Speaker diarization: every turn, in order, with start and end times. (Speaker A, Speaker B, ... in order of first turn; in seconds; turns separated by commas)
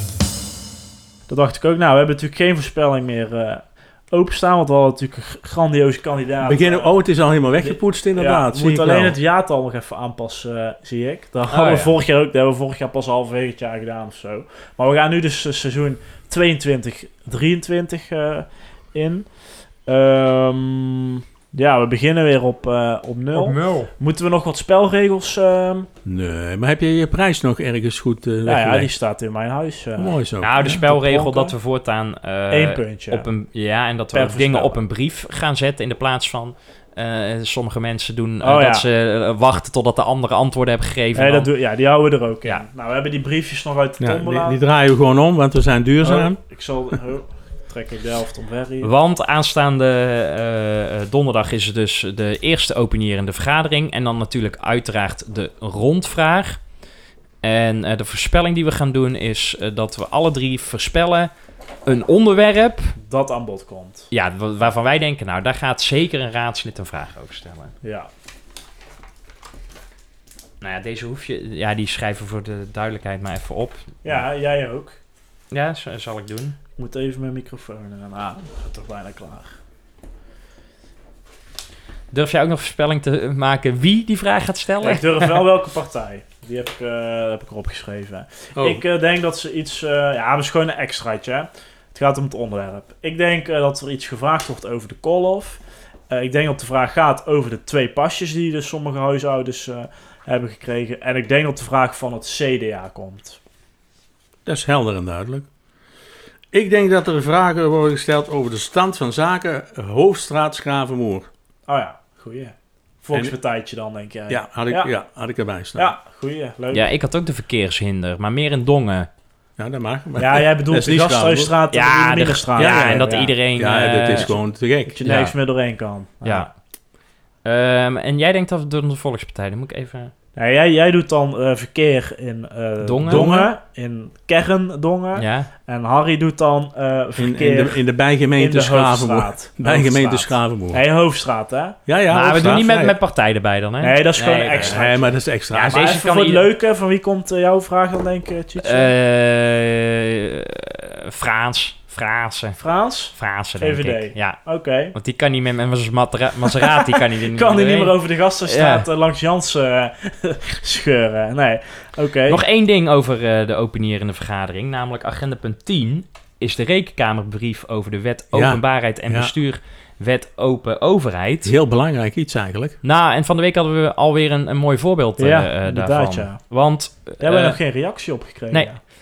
Speaker A: 1.3-6.9, Speaker B: 6.4-9.2, Speaker A: 7.6-19.3, Speaker C: 11.5-11.9, Speaker A: 19.9-25.9, Speaker C: 23.3-23.9, Speaker B: 26.1-28.9, Speaker A: 28.5-31.6, Speaker B: 30.0-30.7, Speaker C: 30.4-41.5, Speaker A: 32.5-33.3, Speaker A: 34.1-34.8, Speaker A: 38.4-38.9, Speaker A: 41.1-44.6, Speaker B: 44.0-46.4, Speaker A: 46.0-48.9, Speaker C: 48.8-56.6, Speaker C: 57.4-61.3, Speaker C: 61.9-63.0, Speaker A: 63.0-64.1, Speaker C: 64.1-67.7, Speaker A: 67.8-68.1, Speaker C: 70.6-74.2, Speaker A: 74.0-75.0, Speaker C: 75.5-76.6, Speaker A: 76.8-79.6, Speaker C: 82.1-85.4, Speaker A: 84.8-103.4, Speaker B: 88.5-88.8, Speaker B: 104.5-105.5, Speaker B: 106.5-111.3, Speaker A: 111.7-114.9, Speaker B: 114.3-116.0, Speaker A: 115.8-116.9, Speaker C: 116.7-119.1, Speaker B: 119.6-121.5, Speaker A: 120.2-123.3, Speaker C: 121.7-124.4, Speaker B: 122.6-125.0, Speaker A: 124.9-126.5, Speaker C: 125.0-125.3, Speaker C: 126.2-126.5, Speaker C: 127.5-130.1, Speaker A: 130.4-137.8, Speaker C: 132.8-133.4, Speaker B: 133.0-133.5, Speaker C: 135.2-135.5, Speaker B: 137.2-140.8, Speaker A: 138.3-141.8, Speaker B: 141.9-143.0, Speaker C: 142.1-144.8, Speaker A: 143.8-148.9, Speaker B: 144.5-145.8, Speaker C: 145.5-146.5, Speaker C: 148.6-152.6, Speaker A: 152.6-154.9, Speaker C: 153.1-154.4, Speaker C: 154.9-158.9, Speaker A: 156.5-162.4, Speaker C: 162.3-171.5, Speaker B: 168.3-169.3, Speaker B: 171.4-172.8, Speaker C: 172.8-177.6, Speaker A: 175.2-176.4, Speaker A: 177.2-178.8